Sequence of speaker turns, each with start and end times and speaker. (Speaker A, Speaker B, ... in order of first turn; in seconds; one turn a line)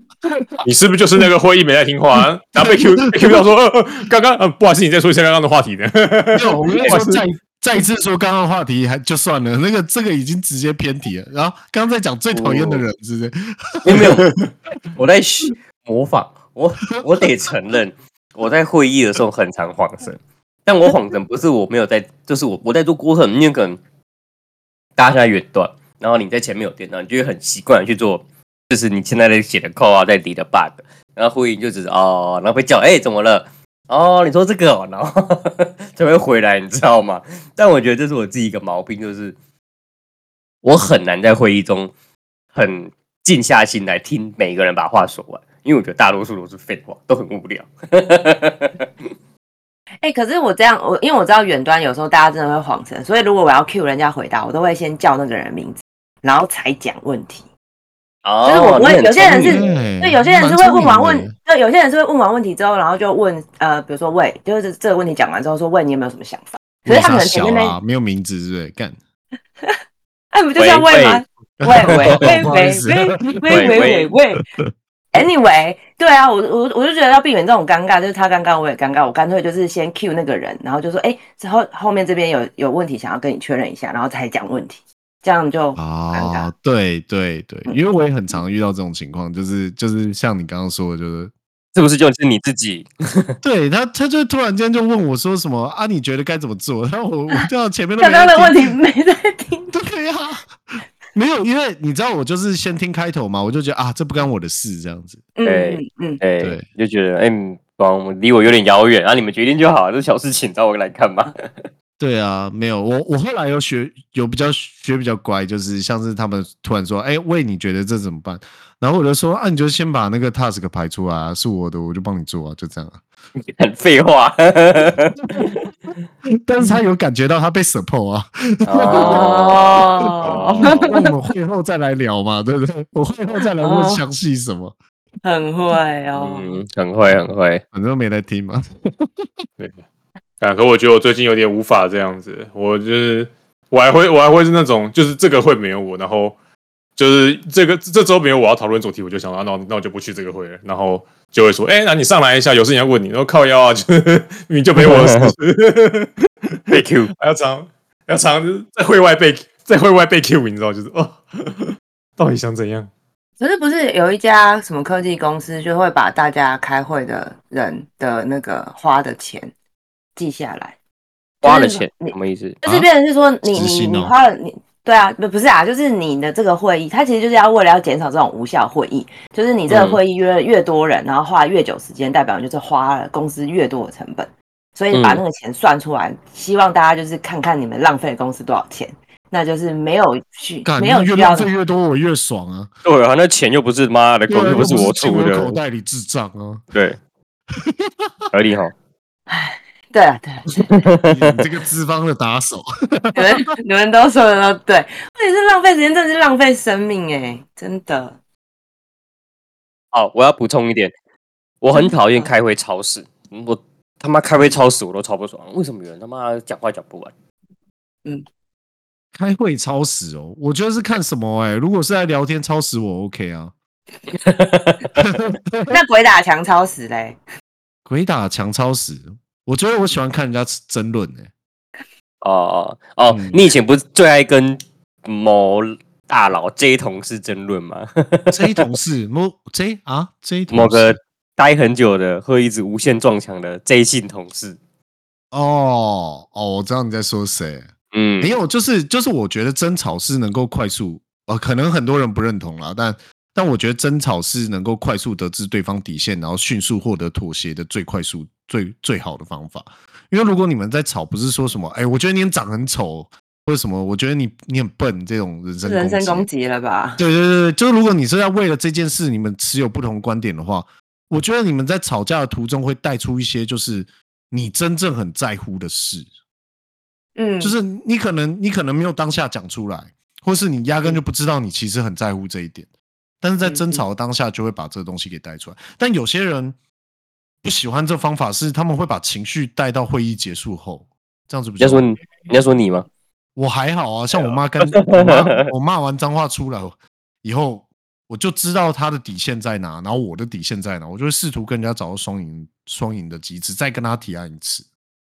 Speaker A: 0.3-0.6
Speaker B: 0.6-7.2
Speaker A: 6.3-14.2
Speaker C: 6.8-7.0
Speaker C: 12.3-12.8
Speaker C: 13.8-14.3
Speaker B: 14.0-14.5
Speaker C: 14.9-23.8
Speaker C: 25.0-39.4
Speaker C: 40.6-41.9
Speaker C: 42.5-48.9
Speaker D: 50.0-57.5
Speaker C: 58.2-59.8
Speaker D: 58.4-67.8
Speaker A: 59.3-61.3
Speaker A: 66.8-69.0
Speaker D: 70.3-74.5
Speaker C: 70.6-71.2
Speaker A: 71.6-74.0
Speaker C: 71.8-72.3
Speaker C: 73.5-74.1
Speaker D: 75.1-86.5
Speaker A: 85.8-91.3
Speaker C: 91.7-93.3
Speaker A: 93.4-98.7
Speaker D: 98.0-99.7
Speaker A: 99.7-105.3
Speaker D: 105.4-106.2
Speaker C: 105.4-111.7
Speaker A: 106.4-106.7
Speaker A: 112.0-123.0
Speaker C: 123.5-125.6
Speaker A: 126.4-129.3
Speaker C: 128.7-130.7
Speaker D: 128.9-131.1
Speaker A: 130.3-134.7
Speaker B: 130.4-130.7
Speaker D: 133.6-134.0
Speaker D: 135.2-136.6
Speaker C: 136.1-137.6
Speaker A: 137.7-139.3
Speaker B: 140.4-146.3
Speaker B: 146.9-156.1
Speaker C: 154.8-155.3
Speaker B: 156.7-162.9
Speaker C: 156.7-157.1
Speaker D: 163.4-169.5
Speaker D: 170.2-170.8
Speaker C: 171.4-172.6
Speaker D: 171.4-191.5
Speaker A: 173.4-174.1
Speaker C: 179.7-180.0
Speaker C: 184.9-185.2
Speaker A: 190.6-192.7
Speaker C: 192.8-195.5
Speaker A: 194.3-196.6
Speaker A: 197.6-198.1
Speaker C: 198.3-198.7
Speaker D: 199.3-200.7
Speaker C: 200.7-201.4
Speaker A: 201.0-203.3
Speaker D: 203.1-208.2
Speaker C: 209.9-210.9
Speaker C: 211.6-217.1
Speaker D: 211.7-212.3
Speaker A: 219.1-223.5
Speaker C: 224.2-225.0
Speaker A: 224.9-225.7
Speaker D: 225.7-227.2
Speaker A: 227.8-231.3
Speaker C: 232.2-238.6
Speaker A: 233.1-233.5
Speaker A: 238.3-241.0
Speaker C: 240.5-244.6
Speaker A: 245.3-266.3
Speaker C: 247.9-248.3
Speaker D: 265.6-267.0
Speaker A: 267.0-276.1
Speaker D: 277.1-277.6
Speaker A: 277.4-282.7
Speaker A: 283.2-286.6
Speaker D: 283.4-283.8
Speaker A: 287.4-291.9
Speaker C: 291.6-292.9
Speaker A: 293.4-304.6
Speaker C: 294.1-295.5